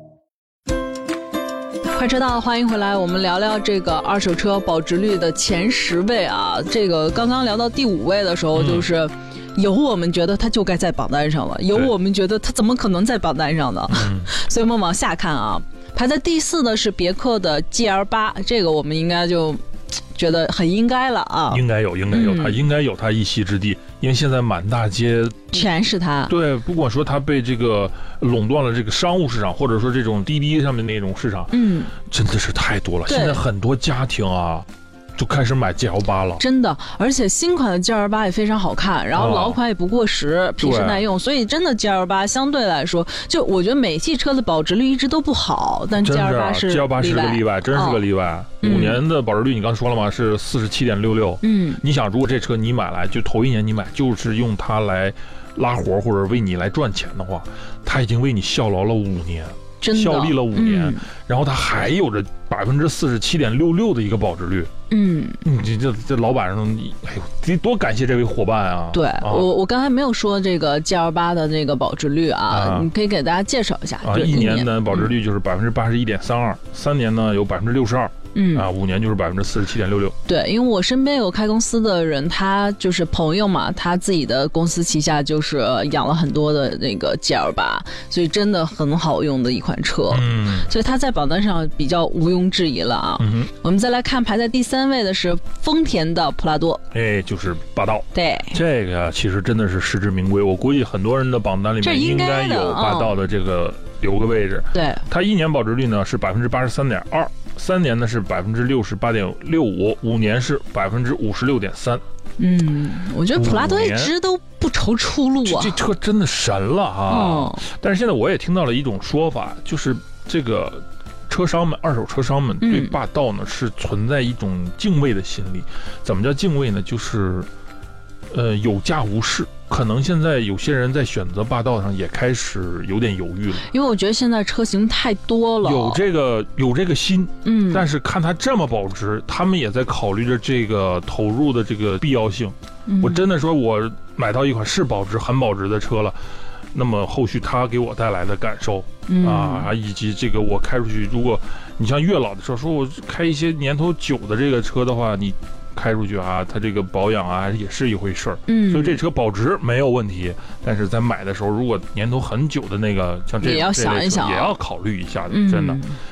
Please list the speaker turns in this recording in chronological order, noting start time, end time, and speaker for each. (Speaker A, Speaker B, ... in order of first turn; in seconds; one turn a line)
Speaker A: 1.9-19.6
Speaker B: 8.5-8.9
Speaker B: 13.9-14.3
Speaker A: 20.1-22.6
Speaker B: 21.5-25.6
Speaker A: 25.5-26.3
Speaker B: 26.3-31.5
Speaker A: 31.5-31.9
Speaker B: 32.1-36.4
Speaker A: 33.1-33.4
Speaker A: 36.4-48.0
Speaker B: 39.1-39.6
Speaker B: 40.6-41.0
Speaker B: 46.0-64.7
Speaker A: 48.6-49.0
Speaker A: 51.4-51.8
Speaker A: 59.8-61.1
Speaker A: 64.9-65.4
Speaker B: 65.4-69.5
Speaker A: 68.9-75.1
Speaker B: 72.5-72.9
Speaker B: 74.0-80.1
Speaker A: 78.3-78.7
Speaker A: 80.2-96.8
Speaker B: 90.1-90.7
Speaker B: 93.2-93.5
Speaker B: 96.9-112.0
Speaker A: 98.1-98.6
Speaker A: 101.8-103.2
Speaker A: 104.7-105.0
Speaker A: 112.4-115.8
Speaker B: 113.3-114.1
Speaker B: 115.4-127.5
Speaker A: 117.1-117.6
Speaker A: 122.6-123.0
Speaker B: 128.3-133.7
Speaker A: 133.7-136.0
Speaker B: 135.6-146.2
Speaker A: 137.4-137.9
Speaker A: 142.9-143.2
Speaker B: 146.7-165.8
Speaker A: 149.1-149.7
Speaker A: 158.5-159.0
Speaker A: 163.4-164.6
Speaker A: 165.3-166.0